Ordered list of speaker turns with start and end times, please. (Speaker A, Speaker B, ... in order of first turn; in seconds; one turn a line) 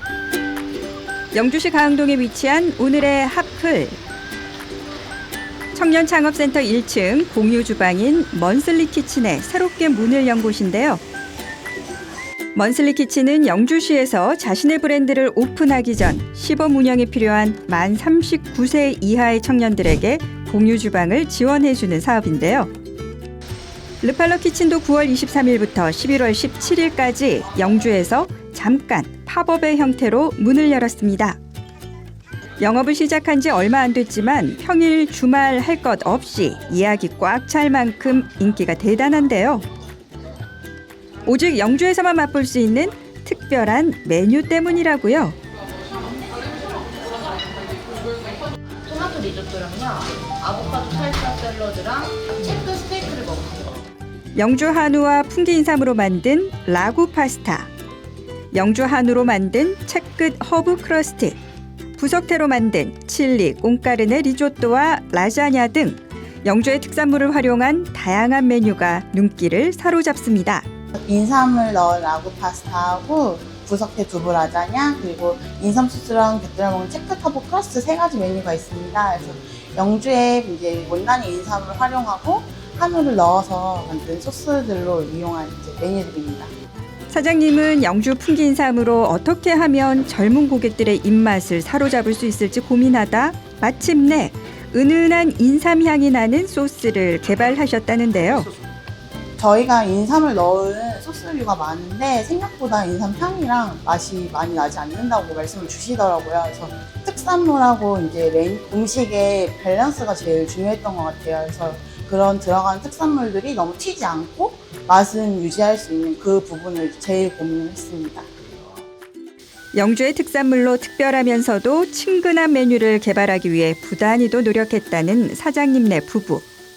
Speaker A: 1.3-4.0
Speaker A: 5.7-11.0
Speaker A: 12.5-22.7
Speaker A: 24.0-31.4
Speaker A: 32.6-39.6
Speaker A: 41.2-45.4
Speaker B: 48.9-53.8
Speaker A: 54.4-57.7
Speaker A: 58.5-61.4
Speaker A: 62.0-70.6
Speaker C: 71.0-86.5
Speaker A: 87.1-98.5
Speaker C: 99.4-118.3
Speaker A: 119.8-126.4